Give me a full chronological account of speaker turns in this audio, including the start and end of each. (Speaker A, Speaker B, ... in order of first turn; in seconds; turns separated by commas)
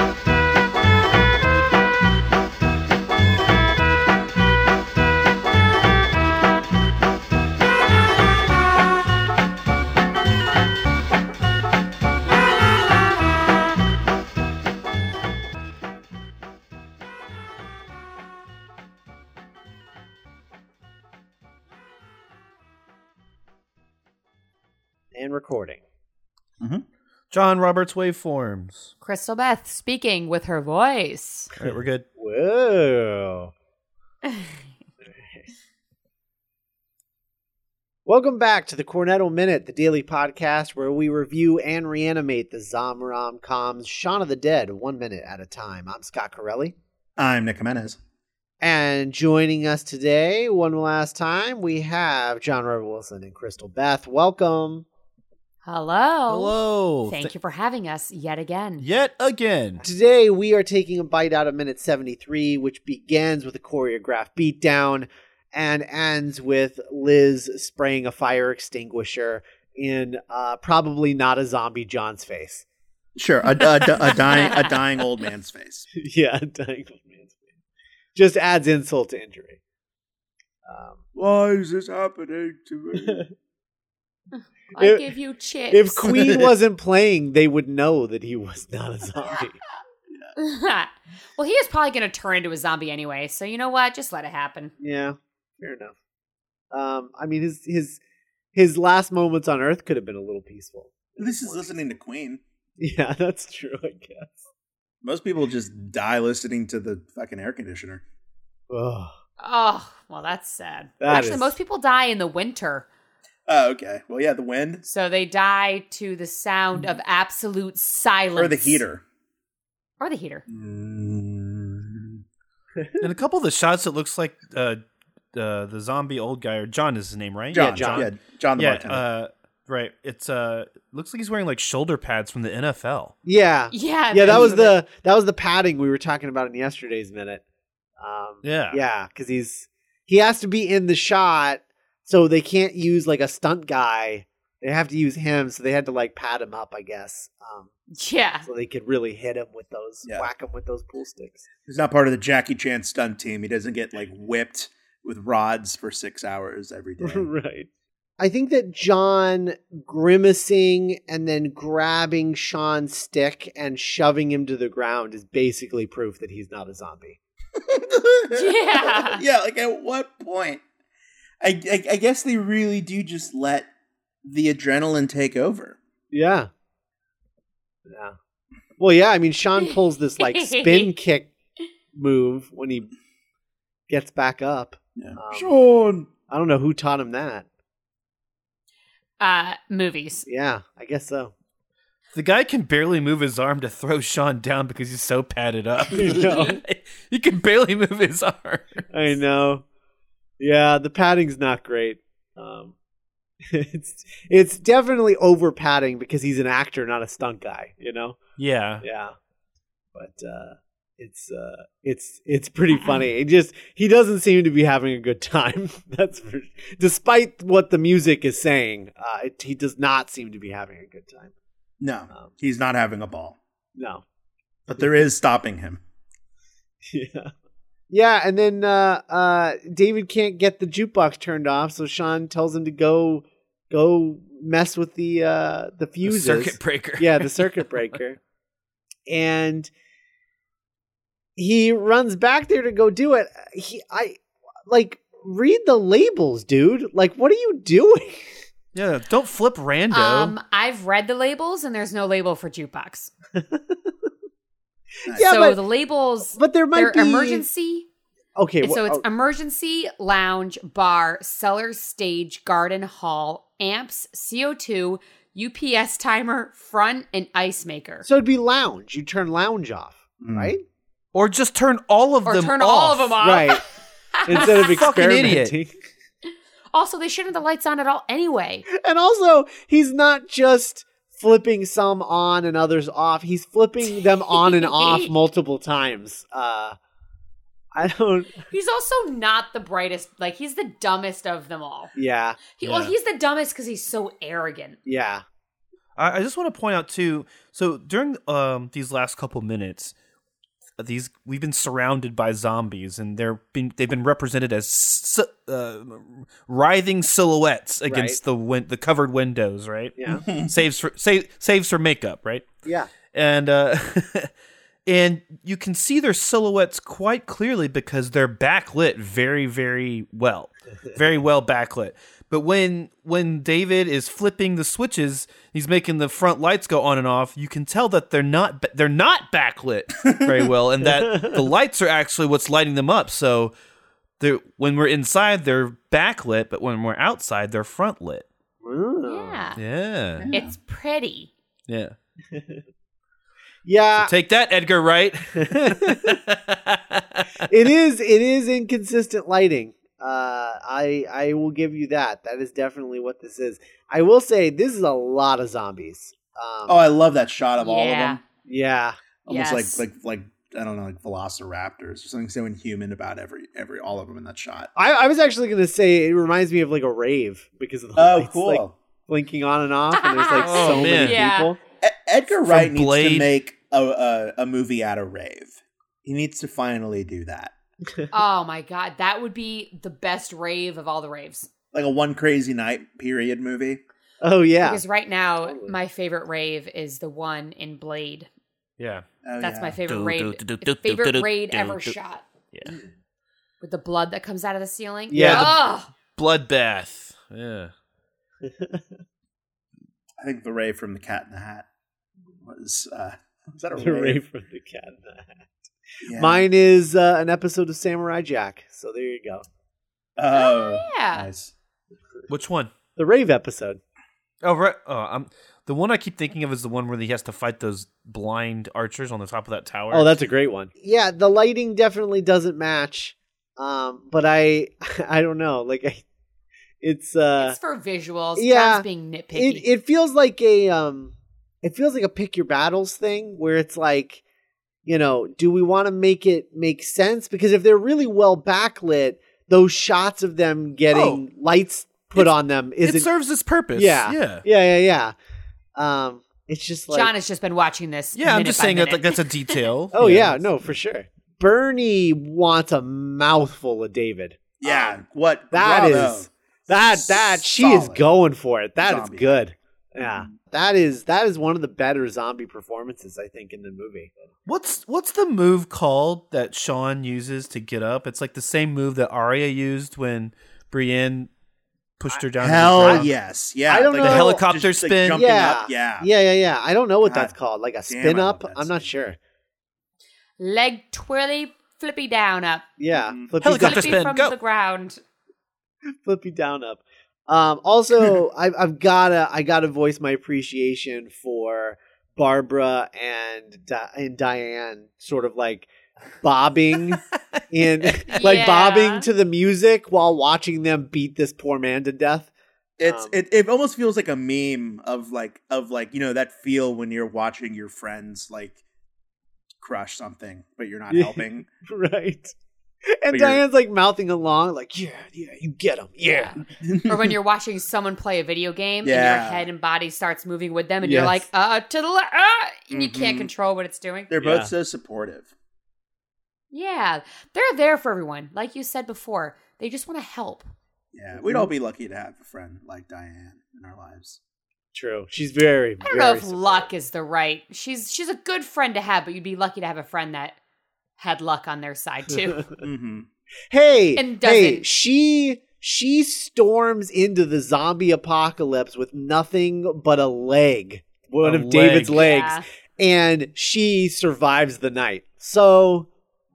Speaker A: 25.1-25.8, Speaker B: 27.3-28.9, Speaker C: 29.0-31.5, Speaker B: 31.6-32.0, Speaker A: 31.6-33.5, Speaker C: 34.3-34.6, Speaker A: 35.0-35.5, Speaker A: 38.1-46.8, Speaker D: 47.2-48.0, Speaker A: 48.6-54.9, Speaker C: 55.6-56.6, Speaker B: 56.3-57.3, Speaker C: 57.1-58.9, Speaker B: 58.8-59.9, Speaker A: 59.8-72.7, Speaker D: 73.2-75.9, Speaker B: 73.9-74.2, Speaker C: 74.4-74.7, Speaker A: 76.0-77.5, Speaker A: 78.2-79.6, Speaker A: 80.7-81.0, Speaker D: 81.2-83.2, Speaker A: 83.0-83.3, Speaker C: 84.3-86.3, Speaker A: 84.8-85.1, Speaker A: 85.7-89.6, Speaker D: 86.2-86.5, Speaker C: 90.4-94.7, Speaker A: 94.8-95.9, Speaker A: 96.7-98.0, Speaker A: 98.5-101.9, Speaker D: 101.2-102.4, Speaker A: 102.8-104.5, Speaker D: 105.0-108.0, Speaker A: 108.7-109.1, Speaker C: 109.4-112.9, Speaker A: 111.0-111.5, Speaker D: 113.5-114.8, Speaker C: 114.8-118.8, Speaker D: 118.3-119.0, Speaker C: 120.0-120.4, Speaker D: 120.5-122.2, Speaker A: 122.8-123.1, Speaker B: 123.0-124.8, Speaker B: 125.3-133.1, Speaker D: 127.5-129.0, Speaker A: 127.5-128.1, Speaker A: 133.2-137.4, Speaker C: 133.7-134.8, Speaker A: 138.0-147.7, Speaker B: 138.4-138.8, Speaker C: 147.9-148.5, Speaker A: 148.4-151.5, Speaker D: 151.7-157.3, Speaker A: 157.0-167.2, Speaker D: 167.7-170.6, Speaker C: 168.3-169.2, Speaker D: 171.4-173.7, Speaker D: 174.2-175.8, Speaker A: 176.1-176.5, Speaker A: 177.9-178.2, Speaker A: 178.8-181.3, Speaker C: 179.6-180.9, Speaker A: 181.9-182.9, Speaker A: 183.9-185.6, Speaker D: 185.0-186.1, Speaker A: 186.3-187.5, Speaker C: 189.2-190.3, Speaker A: 190.3-191.3, Speaker B: 192.1-198.9, Speaker A: 195.9-196.6, Speaker C: 196.2-196.5, Speaker A: 198.9-199.7, Speaker A: 200.4-202.8, Speaker A: 203.4-208.2, Speaker B: 208.4-208.8, Speaker A: 208.8-209.2, Speaker A: 209.9-221.3, Speaker D: 221.8-223.4, Speaker A: 223.8-224.0, Speaker D: 224.7-225.8, Speaker A: 226.9-227.3, Speaker A: 227.9-238.2, Speaker B: 236.0-237.7, Speaker A: 239.1-239.7, Speaker A: 241.4-248.4, Speaker B: 248.7-250.3, Speaker C: 249.9-253.1, Speaker A: 253.3-254.1, Speaker A: 255.1-255.6, Speaker C: 255.2-257.9, Speaker A: 256.3-257.4, Speaker A: 258.4-259.1, Speaker C: 258.6-268.1, Speaker A: 268.0-270.6, Speaker D: 270.2-270.5, Speaker B: 271.1-273.2, Speaker C: 272.2-274.7, Speaker A: 273.2-273.6, Speaker A: 274.2-275.8, Speaker B: 274.3-275.5, Speaker C: 276.7-278.6, Speaker A: 278.7-286.8, Speaker C: 284.3-285.1, Speaker A: 287.7-288.5, Speaker C: 288.5-291.9, Speaker A: 291.9-292.4, Speaker C: 292.5-294.8, Speaker B: 292.6-292.9, Speaker A: 294.9-295.2, Speaker B: 296.0-299.9, Speaker B: 300.8-312.5, Speaker A: 307.9-308.2, Speaker A: 310.0-310.3, Speaker D: 310.1-310.5, Speaker A: 312.6-312.9, Speaker B: 313.1-314.3, Speaker B: 314.9-333.5, Speaker D: 330.1-330.4, Speaker A: 330.8-331.5, Speaker B: 334.2-338.3, Speaker A: 338.6-339.5, Speaker C: 339.1-339.6, Speaker B: 339.6-340.3, Speaker D: 340.2-340.5, Speaker C: 340.3-341.3, Speaker B: 341.7-341.9, Speaker A: 342.3-342.6, Speaker A: 343.6-344.1, Speaker B: 344.0-347.3, Speaker A: 345.4-346.2, Speaker A: 347.5-356.9, Speaker D: 356.7-358.2, Speaker C: 357.6-358.2, Speaker A: 358.4-359.0, Speaker D: 359.3-364.7, Speaker C: 359.3-359.8, Speaker A: 364.8-371.6, Speaker D: 368.0-368.8, Speaker C: 370.0-371.5, Speaker B: 370.4-371.2, Speaker D: 371.8-377.5, Speaker B: 372.4-373.3, Speaker C: 378.1-381.5, Speaker D: 381.7-383.8, Speaker A: 384.2-384.8, Speaker C: 384.6-388.3, Speaker A: 385.4-385.8, Speaker B: 388.8-389.1, Speaker D: 389.2-389.8, Speaker C: 389.4-392.2, Speaker B: 389.9-391.9, Speaker C: 393.6-395.9, Speaker A: 395.1-395.5, Speaker B: 395.1-395.6, Speaker B: 396.2-397.7, Speaker A: 398.4-398.9, Speaker D: 400.2-401.7, Speaker D: 402.4-404.2, Speaker A: 403.8-405.5, Speaker D: 406.0-406.5, Speaker A: 406.1-409.4, Speaker D: 410.2-411.5, Speaker C: 410.3-411.3, Speaker B: 412.3-412.7, Speaker A: 413.0-413.8, Speaker B: 414.4-420.2, Speaker A: 419.9-426.0, Speaker A: 426.8-427.6, Speaker C: 427.4-429.6, Speaker A: 428.4-434.2, Speaker A: 434.9-443.1, Speaker B: 440.9-441.2, Speaker B: 442.8-444.4, Speaker A: 443.8-445.1, Speaker A: 445.8-447.1, Speaker C: 446.9-449.6, Speaker B: 448.2-450.4, Speaker A: 449.9-455.0, Speaker D: 454.6-458.1, Speaker A: 455.5-464.3, Speaker D: 458.8-459.4, Speaker D: 460.0-460.3, Speaker B: 464.5-471.3, Speaker B: 472.0-473.1, Speaker D: 472.4-476.1, Speaker A: 472.8-473.1, Speaker A: 473.7-474.4, Speaker B: 474.0-475.2, Speaker A: 475.1-479.2, Speaker D: 477.0-477.3, Speaker D: 477.9-478.9, Speaker C: 480.4-482.7, Speaker A: 482.8-484.1, Speaker D: 482.9-483.3, Speaker B: 483.4-484.4, Speaker C: 483.5-485.0, Speaker A: 485.9-495.7, Speaker A: 496.2-502.3, Speaker C: 498.1-499.1, Speaker D: 502.8-508.6, Speaker A: 502.8-503.2, Speaker D: 509.6-511.5, Speaker A: 510.9-512.4, Speaker A: 512.9-516.4, Speaker D: 513.1-513.4, Speaker C: 516.0-524.1, Speaker D: 516.6-517.2, Speaker D: 518.8-519.5, Speaker A: 520.8-521.2, Speaker D: 522.7-523.3, Speaker D: 524.1-525.3, Speaker A: 524.2-524.5, Speaker C: 526.5-530.5, Speaker D: 530.9-534.2, Speaker A: 531.1-531.5, Speaker A: 534.7-536.7, Speaker C: 535.8-540.4, Speaker C: 541.0-542.5, Speaker D: 542.6-543.1, Speaker A: 543.5-555.9, Speaker C: 544.0-544.7, Speaker B: 551.2-552.1, Speaker C: 551.9-552.5